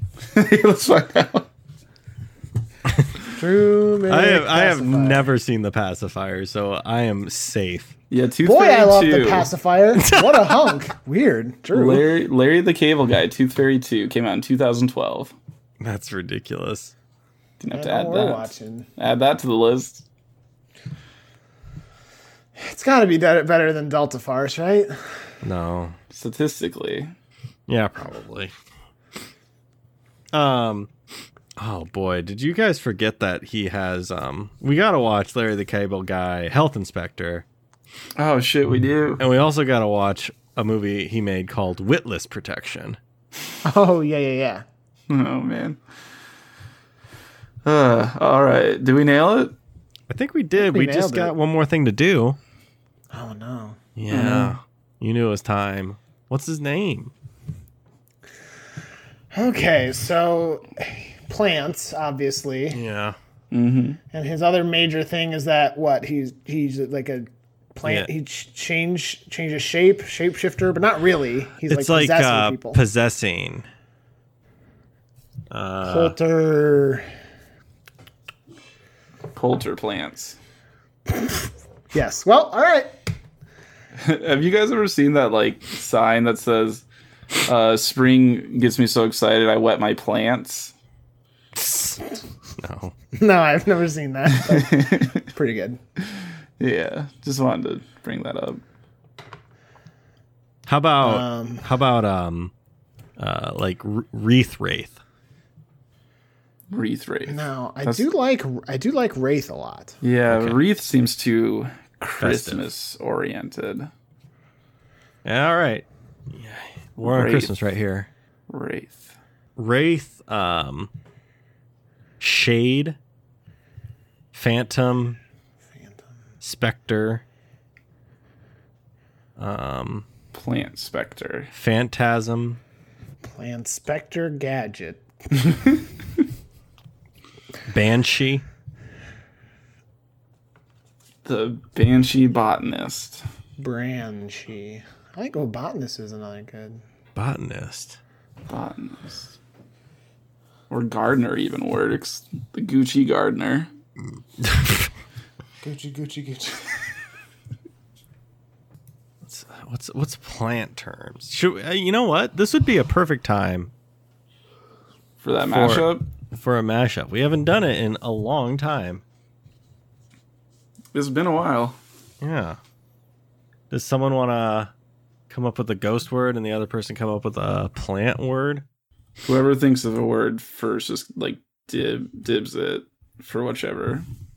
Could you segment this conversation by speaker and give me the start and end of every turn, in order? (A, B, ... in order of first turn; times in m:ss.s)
0:00.3-0:01.5 A
0:03.3-0:05.3 B
0:04.1-0:07.9 C
0:08.1-0:09.5 A
0:08.4-0:12.0 B
0:09.9-0:10.7 C
0:11.7-0:15.4 A
0:15.8-0:16.9 C
0:17.6-0:20.0 A
0:17.7-0:18.9 B
0:22.6-0:24.9 B
0:25.4-0:26.0 C
0:26.1-0:27.1 A
0:27.7-0:28.5 C
0:30.3-0:30.9 C
0:31.6-0:37.4 C
0:38.2-0:39.2 A
0:39.2-0:43.0 C
0:43.6-0:44.6 B
0:45.1-0:45.8 A
0:47.6-0:49.6 A
0:50.1-0:52.4 C
0:50.6-0:51.4 B
0:53.1-0:54.5 B
0:54.0-0:57.1 C
0:54.1-0:54.4 A
0:59.3-1:02.8 B
1:02.7-1:03.2 C
1:03.5-1:04.0 A
1:04.1-1:12.8 B
1:07.8-1:08.1 C
1:11.7-1:13.7 C
1:15.5-1:16.2 C
1:15.8-1:17.1 B
1:19.4-1:20.4 A
1:21.9-1:22.9 B
1:24.0-1:26.8 A
1:27.5-1:30.7 A
1:31.6-1:32.0 C
1:32.6-1:32.9 C
1:33.1-1:35.8 B
1:34.3-1:35.2 A
1:36.6-1:38.6 A
1:40.7-1:42.5 C
1:41.0-1:41.7 B
1:43.2-1:45.0 C
1:46.7-1:48.0 A
1:47.3-1:50.0 B
1:50.0-1:53.9 A
1:50.3-1:50.6 C
1:52.2-1:52.6 C
1:55.2-1:58.1 C
1:57.0-1:57.5 A
1:58.5-1:59.1 A
1:59.6-2:00.9 C
2:02.2-2:03.0 C
2:04.3-2:05.2 C
2:05.8-2:06.0 B
2:06.4-2:07.2 C
2:09.4-2:10.1 C
2:10.3-2:11.5 A
2:11.5-2:12.6 C
2:13.2-2:15.7 B
2:17.7-2:18.4 C
2:21.2-2:23.2 A
2:23.6-2:26.8 B
2:27.2-2:28.0 C
2:28.5-2:29.3 A
2:30.7-2:33.7 A
2:34.4-2:34.9 C
2:35.6-2:36.8 B
2:39.2-2:43.7 C
2:45.2-2:46.0 A
2:45.5-2:49.0 C
2:50.9-2:51.8 A
2:52.2-2:52.6 C
2:53.7-2:54.7 C
2:55.3-2:58.6 C
2:59.2-3:04.0 A